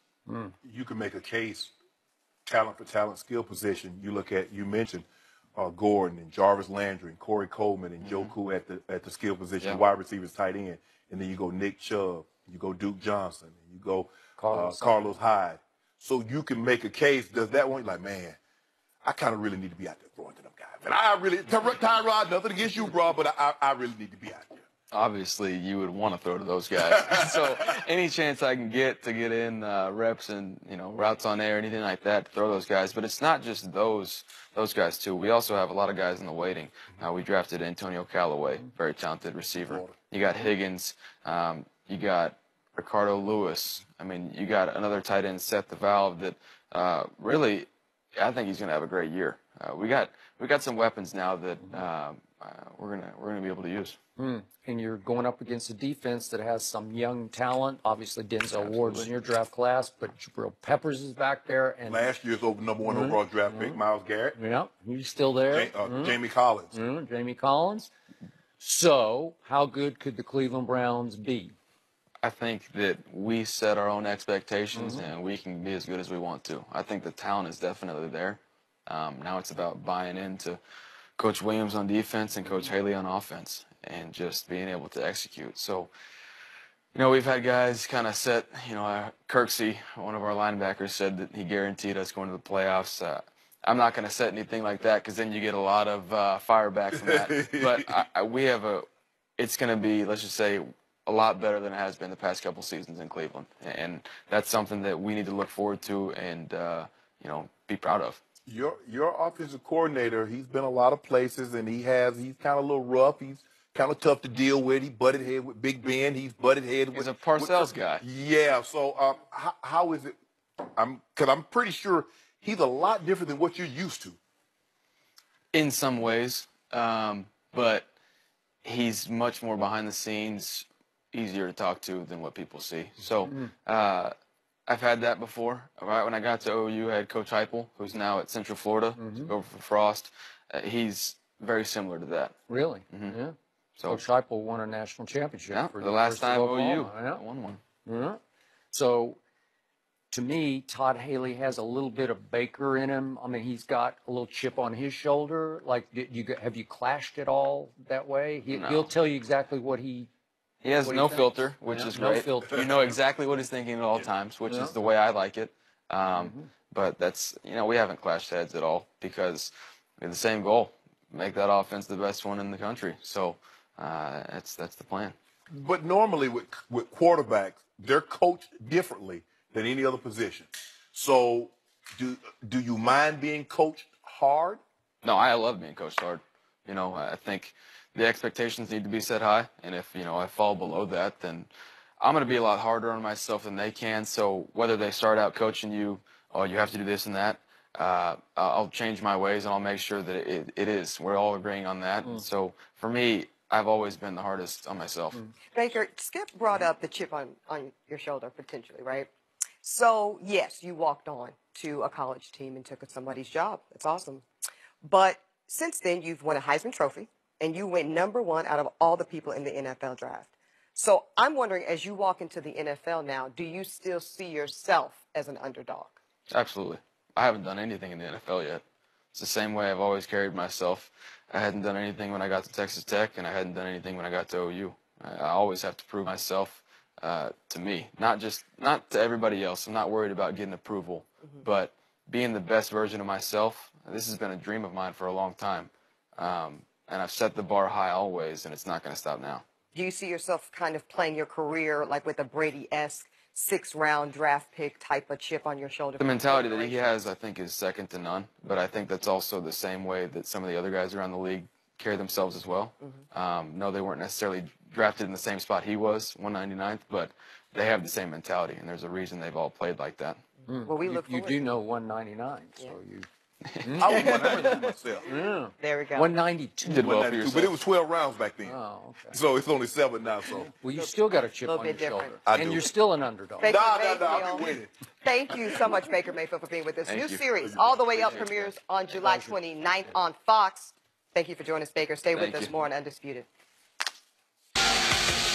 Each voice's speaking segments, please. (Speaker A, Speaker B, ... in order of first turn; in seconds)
Speaker A: 0.3-0.5, 14.4-15.1, 54.2-62.1, 62.9-63.8, 64.3-66.2, 66.7-67.9, 68.6-71.5, 74.7-75.1, 133.3-133.5, 139.0-139.3, 142.5-143.4, 143.9-147.2, 147.9-148.2, 148.7-149.2, 150.1-160.1, 160.8-162.7, 164.5-164.8, 166.1-166.5, 270.5-273.1, 273.6-274.4, 275.1-276.9, 278.4-279.2, 280.3-283.5, 289.0-290.0
Speaker B: 0.6-1.7, 2.5-18.4, 19.0-24.6, 26.9-27.5, 39.6-40.0, 61.9-64.4, 65.5-66.8, 96.9-98.1, 108.5-120.2, 120.8-124.2, 175.5-184.6, 273.7-275.1, 276.8-278.6, 279.1-280.5, 282.3-282.7, 283.4-284.7, 285.3-285.6, 287.4-288.3
Speaker C: 8.0-8.3, 24.9-54.0, 58.5-59.1, 72.2-80.6, 81.2-85.9, 86.9-98.9, 99.4-108.2, 116.9-118.0, 125.5-127.9, 128.6-134.1, 134.7-142.3, 142.9-143.2, 143.8-144.0, 145.5-147.6, 158.5-158.9, 160.6-175.2, 185.0-191.5, 192.0-205.2, 226.3-228.6, 229.1-249.4, 256.0-270.2, 276.6-277.6, 286.9-289.0, 292.1-292.6
Speaker D: 205.5-209.1, 209.6-214.2, 214.8-226.0, 249.7-257.0, 270.6-271.4, 273.9-274.8, 275.6-276.1, 280.8-282.2, 283.4-293.3